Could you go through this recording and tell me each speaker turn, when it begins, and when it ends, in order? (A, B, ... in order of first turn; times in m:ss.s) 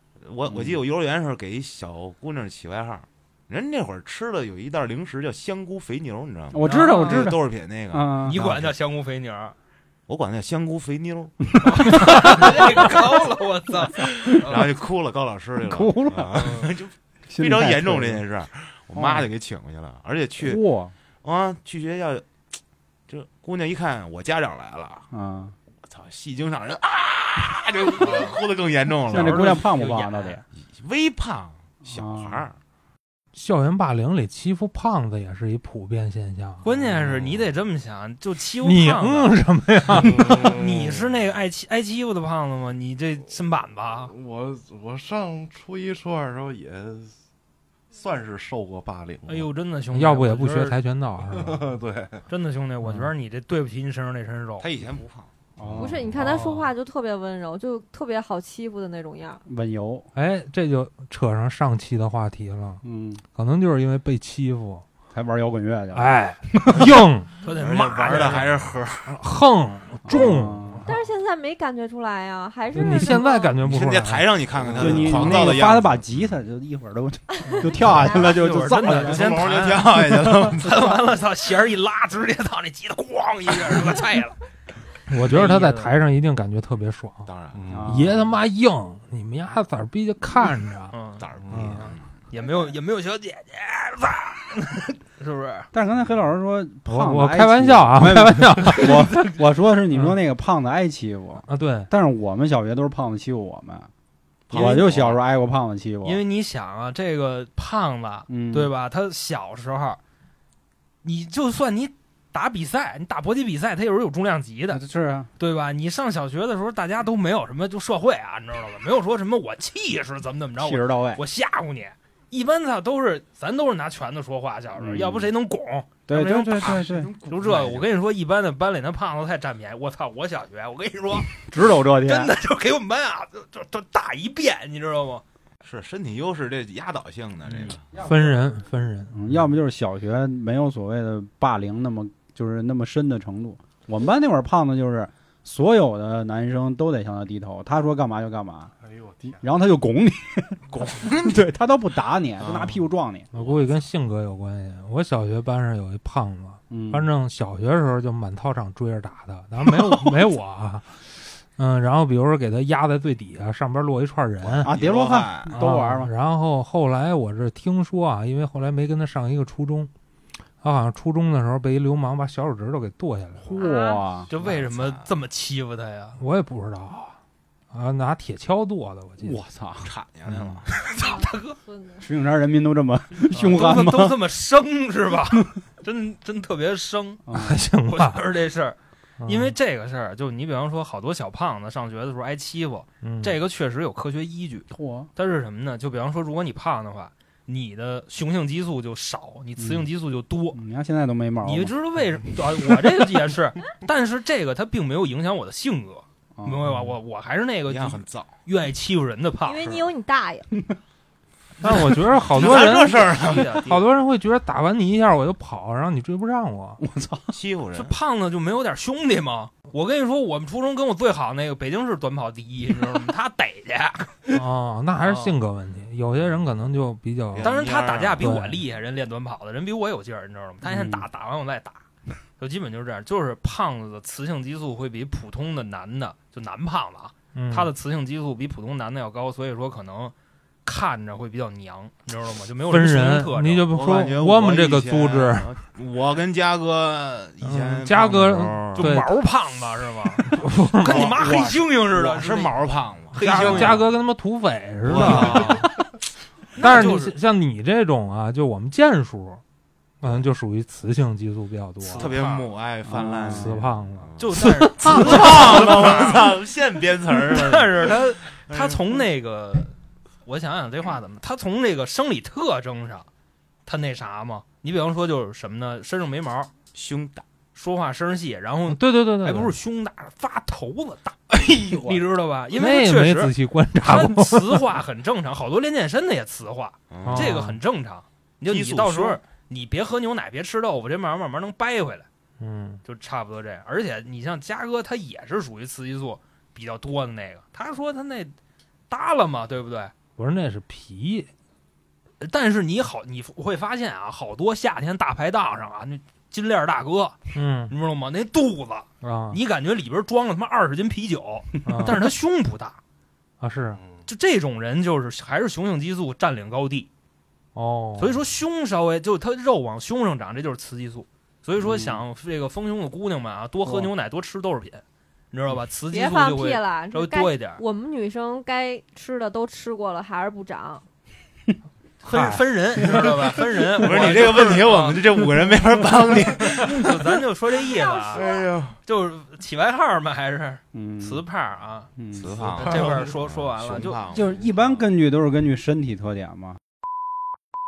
0:00.2-0:08.7 A
0:06.5-0:08.4 B
0:06.6-0:07.3 C
0:08.2-0:09.6 C
0:10.1-0:13.0 A
0:11.6-0:14.7 C
0:14.0-0:20.6 A
0:15.6-0:16.6 B
0:16.3-0:16.7 C
0:17.3-0:18.2 B
0:18.9-0:19.3 B
0:20.4-0:20.9 B
0:21.2-0:22.4 A
0:23.1-0:25.1 A
0:25.1-0:25.5 B
0:25.8-0:29.6 A
0:29.1-0:30.4 B
0:29.1-0:30.4 C
0:30.5-0:32.6 A
0:31.8-0:32.4 B
0:33.3-0:36.6 D
0:36.6-0:39.3 C
0:36.9-0:37.4 A
0:38.6-0:40.4 D
0:39.9-0:41.1 E
0:40.1-0:44.1 C
0:44.1-0:47.1 E
0:47.9-0:49.5 E
0:49.3-0:50.8 C
0:49.9-0:51.6 D
0:51.2-0:52.2 E
0:52.3-0:54.7 C
0:52.8-0:53.1 D
0:54.6-0:55.3 A
0:55.6-0:56.1 B
0:55.6-0:55.9 E
0:55.7-0:59.4 F
0:56.1-0:56.7 D
0:59.4-1:00.1 B
1:00.1-1:02.8 D
1:02.8-1:03.2 B
1:03.3-1:04.8 D
1:05.1-1:07.0 B
1:05.9-1:07.3 D
1:07.4-1:08.5 C
1:07.5-1:09.2 A
1:09.1-1:10.9 D
1:10.0-1:10.9 B
1:10.8-1:13.6 F
1:12.7-1:15.2 D
1:13.6-1:16.3 A
1:14.7-1:19.5 B
1:17.4-1:18.4 F
1:17.4-1:24.4 C
1:18.8-1:21.0 A
1:25.1-1:27.3 D
1:25.2-1:25.9 C
1:27.2-1:27.6 A
1:27.5-1:28.0 E
1:27.7-1:28.2 B
1:27.9-1:30.9 D
1:30.9-1:31.2 C
1:31.2-1:32.1 A
1:31.4-1:31.8 E
1:31.5-1:31.9 D
1:32.3-1:35.7 C
1:35.7-1:43.9 B
1:36.9-1:39.3 D
1:39.9-1:40.2 D
1:41.5-1:41.9 D
1:44.5-1:45.2 A
1:44.5-1:46.2 B
1:44.5-1:44.8 C
1:46.0-1:50.0 C
1:48.3-1:48.7 B
1:51.0-1:54.8 C
1:54.7-1:55.3 B
1:55.4-2:11.5 C
2:00.6-2:01.2 B
2:04.8-2:05.3 B
2:06.1-2:07.1 B
2:06.5-2:07.9 A
2:11.5-2:12.3 B
2:12.0-2:15.2 C
2:15.6-2:17.8 A
2:17.9-2:19.2 D
2:18.0-2:18.4 B
2:19.1-2:28.7 B
2:28.8-2:29.4 E
2:29.4-2:33.3 B
2:30.8-2:31.4 A
2:32.4-2:33.6 A
2:33.3-2:44.8 D
2:36.7-2:37.1 B
2:44.4-2:45.6 A
2:44.6-2:46.1 B
2:45.5-2:49.9 D
2:50.6-2:53.6 D
2:53.4-2:54.3 B
2:53.5-2:54.0 F
2:54.3-2:55.1 A
2:54.3-2:56.2 C
2:56.2-2:57.1 D
2:57.7-2:59.4 D
2:59.2-2:59.9 B
2:59.8-3:00.9 A
3:00.8-3:01.6 C
3:01.0-3:02.0 F
3:02.0-3:04.2 B
3:03.2-3:07.2 C
3:07.3-3:07.6 B
3:07.3-3:08.2 D
3:07.8-3:20.6 C
3:09.2-3:09.5 D
3:13.0-3:13.4 D
3:14.7-3:15.1 B
3:19.6-3:19.9 B
3:20.5-3:21.7 B
3:21.4-3:29.8 C
3:26.4-3:26.6 B
3:27.7-3:28.3 A
3:29.4-3:30.5 F
3:31.6-3:36.8 D
3:31.6-3:33.8 A
3:32.3-3:33.8 C
3:36.8-3:37.3 B
3:37.3-3:37.9 A
3:37.7-3:44.3 C
3:44.3-3:47.5 D
3:45.0-3:45.3 C
3:47.3-3:48.3 A
3:47.4-3:51.8 C
3:48.2-3:48.6 D
3:50.6-3:51.0 B
3:52.4-4:00.1 C
3:57.3-3:57.7 D
4:00.6-4:03.7 C
4:02.7-4:05.5 D
4:03.7-4:08.9 A
4:07.4-4:09.2 D
4:08.8-4:12.6 C
4:10.2-4:11.1 D
4:10.8-4:13.9 A
4:13.1-4:13.8 C
4:13.2-4:15.7 D
4:14.8-4:15.7 A
4:15.0-4:15.7 C
4:16.6-4:17.1 C
4:16.6-4:19.4 D
4:16.6-4:16.9 A
4:20.0-4:22.1 D
4:21.8-4:22.5 C
4:21.9-4:29.0 A
4:22.8-4:23.6 B
4:23.2-4:25.6 D
4:24.2-4:26.3 C
4:27.3-4:29.7 C
4:30.2-4:33.1 C
4:33.6-4:36.5 C
4:36.7-4:37.2 A
4:37.5-4:52.1 C
4:38.7-4:39.5 D
4:41.6-4:42.0 B
4:42.5-4:44.6 D
4:46.9-4:47.4 A
4:47.0-4:47.6 D
4:48.5-4:49.2 A
4:52.4-4:52.8 D
4:52.8-4:58.3 C
4:58.9-4:59.9 C
5:00.2-5:01.3 D
5:02.2-5:12.8 C
5:07.3-5:07.7 D
5:09.0-5:09.4 D
5:11.6-5:12.1 D
5:13.4-5:13.8 D
5:13.8-5:14.0 E
5:14.0-5:16.9 C
5:17.5-5:18.2 D
5:18.0-5:27.6 C
5:21.6-5:22.0 B
5:23.6-5:23.9 B
5:25.9-5:30.8 F
5:32.0-5:35.0 C
5:32.1-5:32.4 D
5:33.8-5:36.9 A
5:36.4-5:38.2 C
5:37.7-5:38.4 F
5:38.1-5:38.8 A
5:38.8-5:41.9 C
5:40.7-5:41.2 B
5:42.0-5:42.4 B
5:42.1-5:44.5 A
5:42.6-5:44.0 C
5:44.1-5:46.6 B